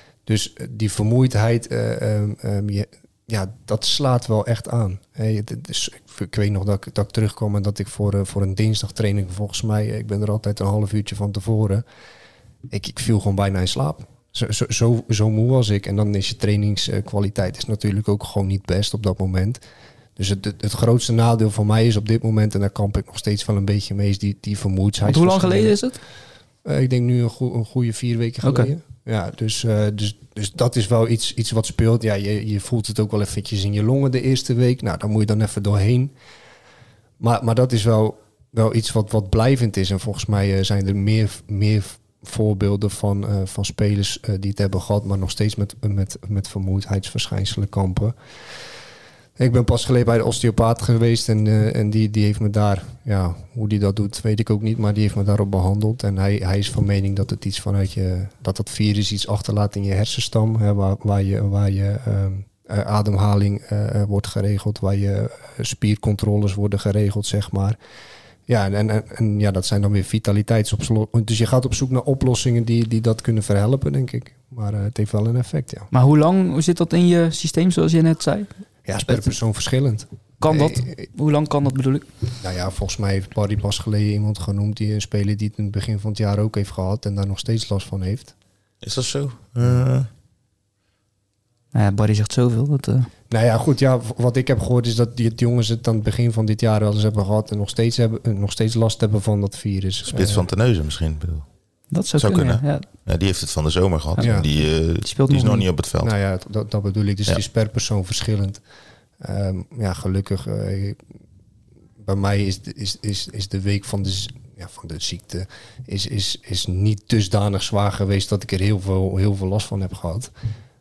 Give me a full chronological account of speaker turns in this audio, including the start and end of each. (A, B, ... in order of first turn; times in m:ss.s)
0:00.3-0:11.8 A
0:12.7-0:19.6 A
0:20.2-0:25.8 A
0:25.1-0:26.0 B
0:26.6-0:36.1 A
0:28.4-0:28.7 B
0:37.2-0:48.2 A
0:49.4-1:07.8 A
1:08.5-1:15.9 A
1:15.9-1:18.5 B
1:18.9-1:21.0 A
1:20.4-1:22.1 B
1:22.4-1:28.3 A
1:28.8-1:30.1 C
1:31.7-1:33.1 B
1:33.3-1:40.5 A
1:40.1-1:41.5 C
1:41.9-1:42.8 B
1:42.2-1:46.1 C
1:44.2-1:44.5 A
1:45.0-1:45.7 B
1:46.0-1:48.6 A
1:49.2-1:51.0 A
1:52.0-2:00.3 A